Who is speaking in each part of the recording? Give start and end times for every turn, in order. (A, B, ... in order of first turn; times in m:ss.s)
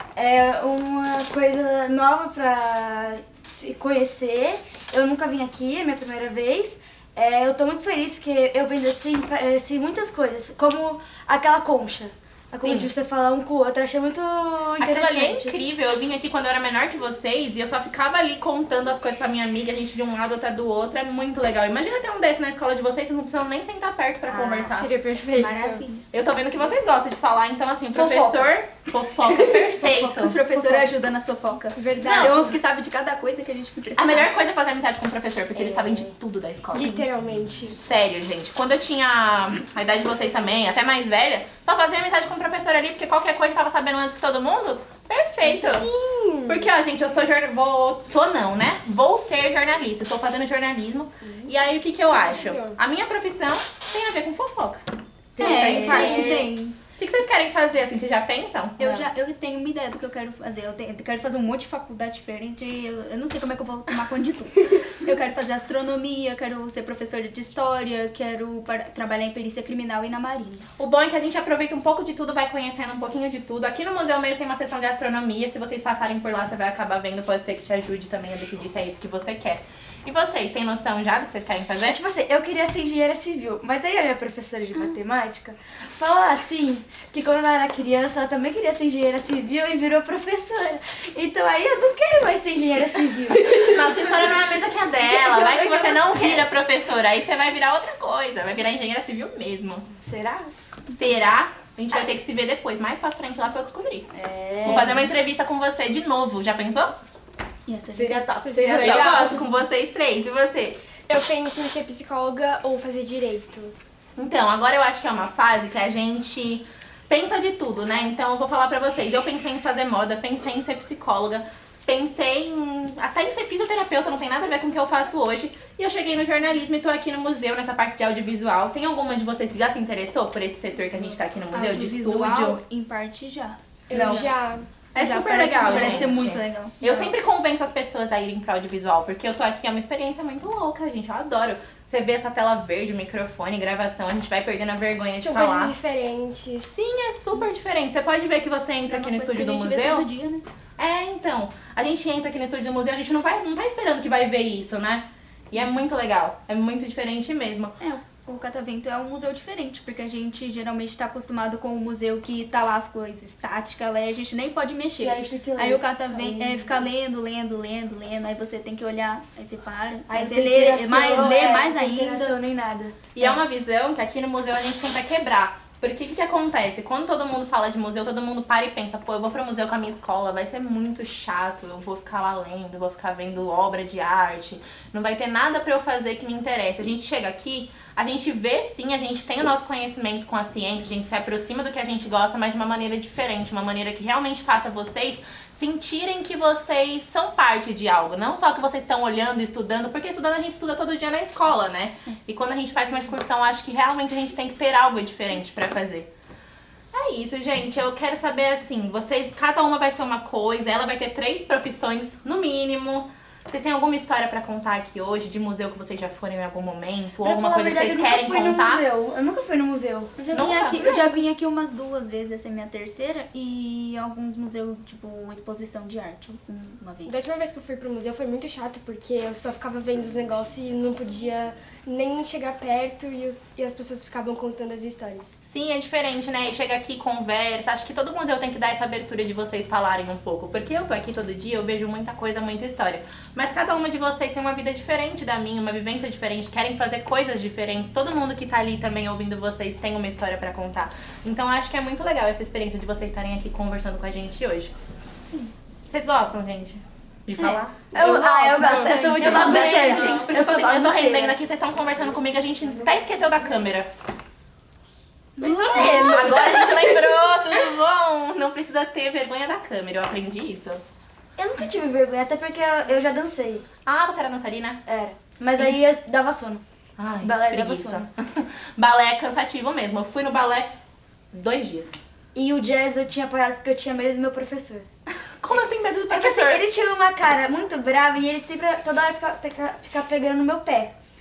0:00.2-0:15.6 A
0:12.6-0:12.9 B
0:14.8-0:24.9 B
0:24.4-0:25.8 C
0:25.4-0:26.0 D
0:26.1-0:30.7 B
0:27.9-0:28.5 A
0:29.9-0:34.3 D
0:31.8-0:32.6 C
0:32.0-0:32.5 B
0:34.0-0:36.9 B
0:35.6-0:36.1 A
0:36.7-0:37.8 C
0:36.8-0:37.0 D
0:37.8-0:45.9 B
0:45.4-0:46.7 C
0:46.5-0:54.8 B
0:51.2-0:51.5 C
0:52.2-0:52.8 C
0:55.4-0:56.5 A
0:55.4-0:56.3 B
0:55.4-0:56.8 D
0:57.0-0:59.1 B
0:58.8-1:10.7 D
1:10.8-1:22.0 B
1:21.8-1:34.4 A
1:33.5-1:39.9 B
1:35.0-1:36.5 A
1:40.0-1:40.5 A
1:40.9-1:47.0 B
1:44.1-1:45.1 A
1:47.7-1:49.4 D
1:47.9-1:49.1 A
1:48.4-1:49.2 C
1:48.7-1:50.8 B
1:51.1-1:53.7 C
1:54.2-2:12.6 B
2:11.5-2:14.2 D
2:13.9-2:14.7 C
2:13.9-2:14.3 A
2:14.9-2:25.8 B
2:15.0-2:16.8 D
2:15.6-2:16.0 C
2:25.2-2:26.7 C
2:26.7-2:30.1 B
2:28.9-2:30.4 D
2:30.8-2:37.7 B
2:37.8-2:52.4 D
2:45.0-2:46.9 A
2:50.1-2:53.0 A
2:53.1-3:26.1 B
3:26.9-3:38.8 B
3:37.2-3:40.3 A
3:40.3-3:47.3 D
3:40.3-3:41.1 B
3:47.1-3:55.4 C
3:55.5-4:14.7 B
4:15.9-4:17.9 B
4:17.4-4:20.2 D
4:17.9-4:21.4 A
4:18.6-4:23.9 B
4:25.4-4:26.6 D
4:25.4-4:26.8 C
4:25.7-4:30.8 B
4:25.7-4:26.3 A
4:31.4-4:33.7 A
4:33.9-4:34.8 B
4:34.9-4:36.6 A
4:37.0-4:40.7 B
4:37.2-4:38.1 A
4:41.3-4:42.0 B
4:42.3-4:44.9 A
4:45.4-4:46.6 B
4:46.1-4:50.9 A